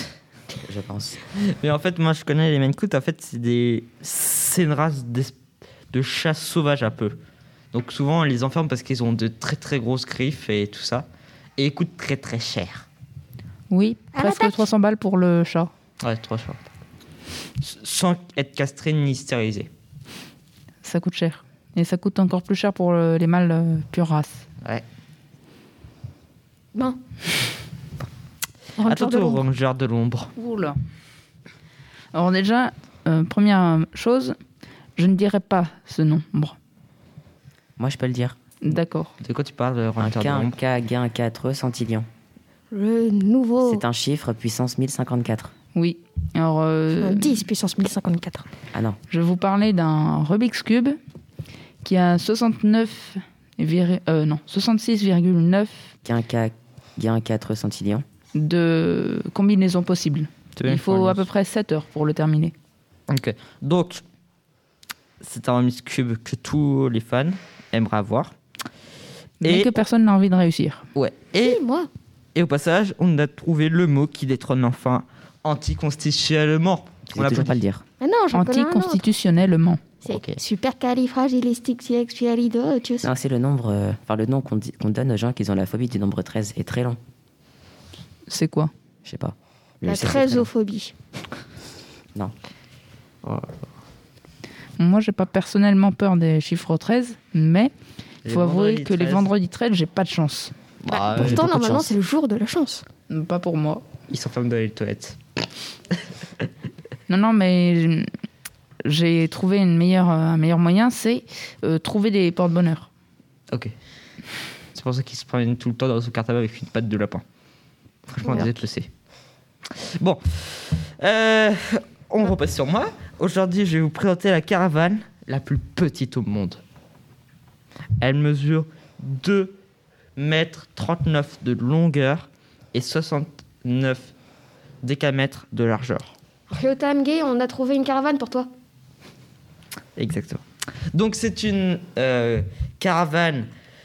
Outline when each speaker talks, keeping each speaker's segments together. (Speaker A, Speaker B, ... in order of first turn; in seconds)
Speaker A: 0.6-1.2, 37.8-38.4, 40.0-42.1, 43.6-45.5, 48.7-49.0, 56.0-58.0, 77.1-77.8, 83.0-87.0, 89.0-90.5, 101.2-101.9, 118.2-118.6
Speaker B: 1.6-5.3, 5.9-7.2, 7.7-12.9, 16.0-16.6, 17.6-19.7, 28.9-30.3, 39.2-40.6, 60.6-61.3, 63.1-64.0, 65.2-68.3, 69.4-69.7, 71.0-71.6, 72.3-77.6, 80.1-80.4, 98.2-99.3, 100.8-101.5, 104.1-105.2, 114.8-117.2, 118.2-118.9, 120.0-126.6, 128.0-129.6, 130.2-134.1, 134.8-136.1, 140.0-143.5
Speaker C: 13.7-15.7, 20.8-24.5, 30.4-30.8, 32.1-34.4, 35.0-36.6, 38.6-39.1, 45.7-47.4, 49.1-51.0, 51.8-55.9, 58.4-62.5, 69.4-70.9, 78.3-79.8, 88.3-88.7, 94.8-97.7, 98.3-100.5, 103.1-103.8, 107.1-108.1, 108.8-112.9
Speaker D: 14.1-14.6, 26.7-27.0, 28.8-29.4, 42.7-43.8, 47.0-48.5, 71.4-71.9, 78.0-79.0, 80.0-83.1, 89.8-90.9, 100.9-102.8, 136.5-138.5